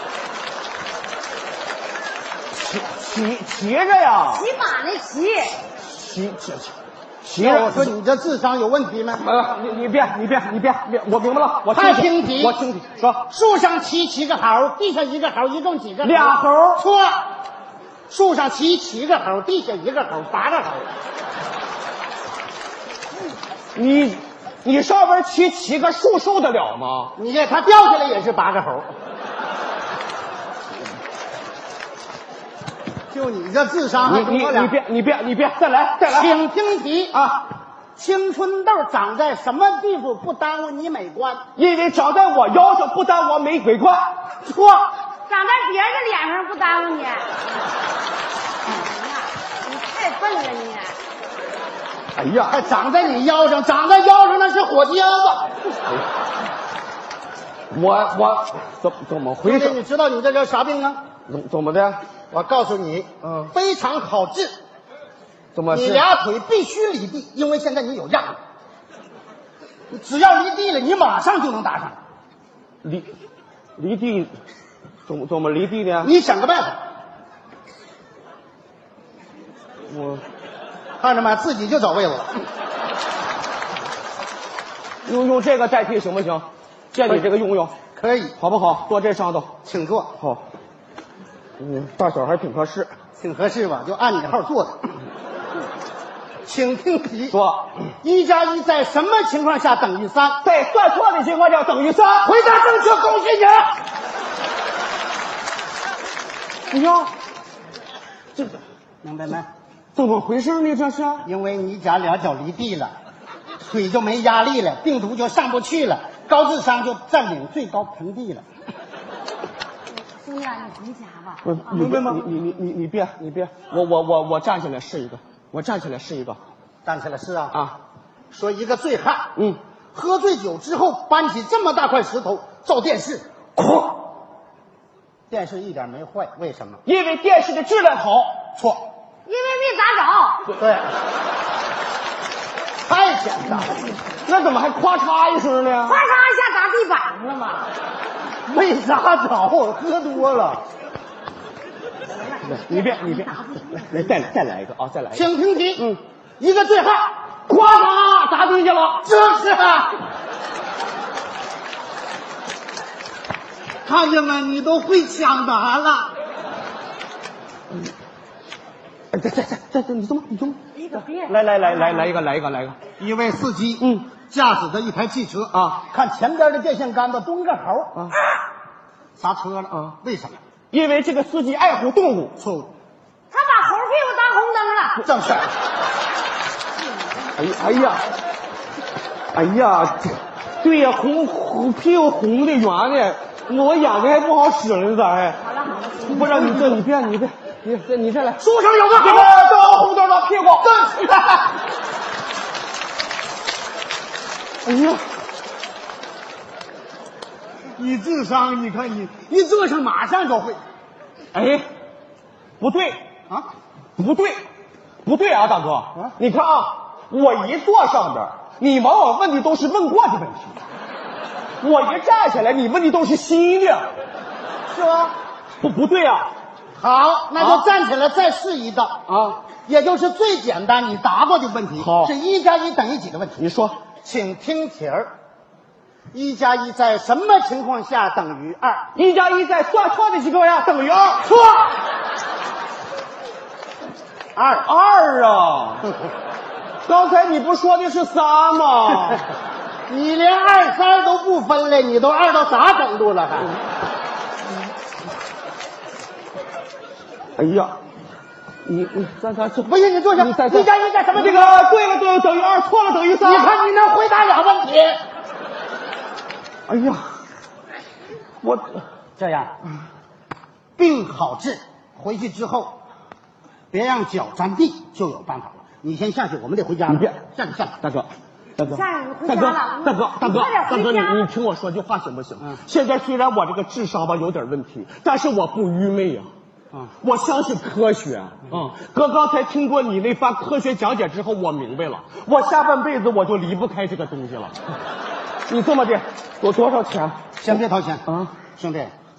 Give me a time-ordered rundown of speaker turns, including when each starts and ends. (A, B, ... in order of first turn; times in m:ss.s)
0:02.5-0:04.5 A
0:04.3-0:05.6 B
0:05.8-0:07.9 A
0:07.4-0:09.2 C
0:09.1-0:13.2 A
0:11.7-0:12.6 C
0:13.3-0:17.3 C
0:16.0-0:16.8 A
0:18.1-0:20.9 C
0:23.7-0:27.1 A
0:27.2-0:28.9 C
0:33.1-0:34.7 C
0:34.0-0:36.3 A
0:36.0-0:37.2 C
0:37.1-0:37.4 A
0:38.0-0:41.4 C
0:41.6-0:44.1 A
0:44.4-0:44.9 C
0:45.3-0:47.3 B
0:48.6-0:51.0 B
0:52.2-0:52.6 A
0:52.4-0:55.5 C
0:57.7-0:59.8 A
0:59.4-1:01.0 C
1:01.3-1:02.0 A
1:02.3-1:04.6 C
1:03.2-1:03.5 A
1:05.5-1:06.0 A
1:05.7-1:08.4 C
1:09.9-1:12.0 C
1:12.8-1:13.1 A
1:13.8-1:14.4 A
1:15.0-1:16.1 A
1:16.0-1:16.8 C
1:19.9-1:20.2 A
1:21.0-1:22.4 C
1:25.0-1:27.7 A
1:27.9-1:28.4 C
1:28.4-1:29.5 A
1:29.6-1:30.1 C
1:30.2-1:30.4 A
1:31.6-1:32.9 A
1:33.2-1:35.0 C
1:36.4-1:37.3 C
1:37.3-1:37.9 A
1:38.0-1:40.4 C
1:40.4-1:42.3 A
1:42.2-1:43.7 C
1:46.7-1:47.1 A
1:49.0-1:49.5 C
1:49.9-1:51.3 A
1:51.2-1:52.9 C
1:53.6-1:58.4 C
2:00.0-2:01.8 B
2:01.4-2:06.4 A
2:01.7-2:02.3 C
2:06.8-2:07.6 C
2:08.3-2:09.3 C
2:09.9-2:13.2 C
2:13.6-2:13.9 A
2:15.3-2:16.8 C
2:16.8-2:18.3 A
2:18.6-2:18.8 C
2:19.2-2:20.4 B
2:20.6-2:20.9 C
2:22.8-2:23.9 C
2:24.2-2:26.0 A
2:25.8-2:27.7 B
2:28.4-2:30.6 C
2:32.1-2:34.0 B
2:32.4-2:35.2 A
2:35.1-2:35.9 C
2:36.4-2:37.1 C
2:37.5-2:39.1 A
2:39.0-2:40.0 C
2:43.8-2:46.1 C
2:49.1-2:52.8 A
2:50.8-2:52.1 B
2:53.0-2:58.0 C
2:53.8-2:54.1 A
2:55.5-2:55.8 A
2:59.2-3:00.4 C
3:00.7-3:02.4 A
3:02.4-3:02.7 C
3:03.3-3:05.0 B
3:05.0-3:05.5 C
3:07.3-3:08.0 A
3:09.3-3:15.4 A
3:15.4-3:16.6 B
3:16.0-3:18.4 A
3:18.4-3:19.4 C
3:19.0-3:20.7 A
3:20.6-3:21.4 C
3:24.6-3:25.0 A
3:27.8-3:30.6 C
3:31.3-3:31.6 A
3:32.6-3:33.0 A
3:34.0-3:34.4 A
3:35.0-3:40.6 A
3:41.6-3:43.9 A
3:44.7-3:45.1 C
3:45.6-3:46.3 A
3:46.8-3:49.0 C
3:47.4-3:47.6 A
3:49.1-3:49.4 A
3:49.6-3:53.4 C
3:51.8-3:52.1 A
3:53.4-3:53.8 A
3:54.0-3:55.1 C
3:56.1-3:58.8 C
3:58.9-4:01.3 A
4:01.2-4:01.7 C
4:04.3-4:04.7 C
4:04.6-4:05.9 A
4:06.8-4:09.2 A
4:09.9-4:13.5 C
4:17.4-4:17.8 A
4:18.6-4:23.5 A
4:19.6-4:21.7 C
4:23.2-4:25.0 C
4:26.7-4:27.0 A
4:28.4-4:28.8 A
4:29.2-4:29.5 C
4:30.8-4:32.7 C
4:33.7-4:37.7 C
4:36.9-4:37.2 A
4:37.8-4:46.3 A
4:38.6-4:41.3 B
4:47.0-4:54.6 A
4:55.5-4:57.2 A
4:57.4-4:58.9 C
4:58.1-4:58.3 A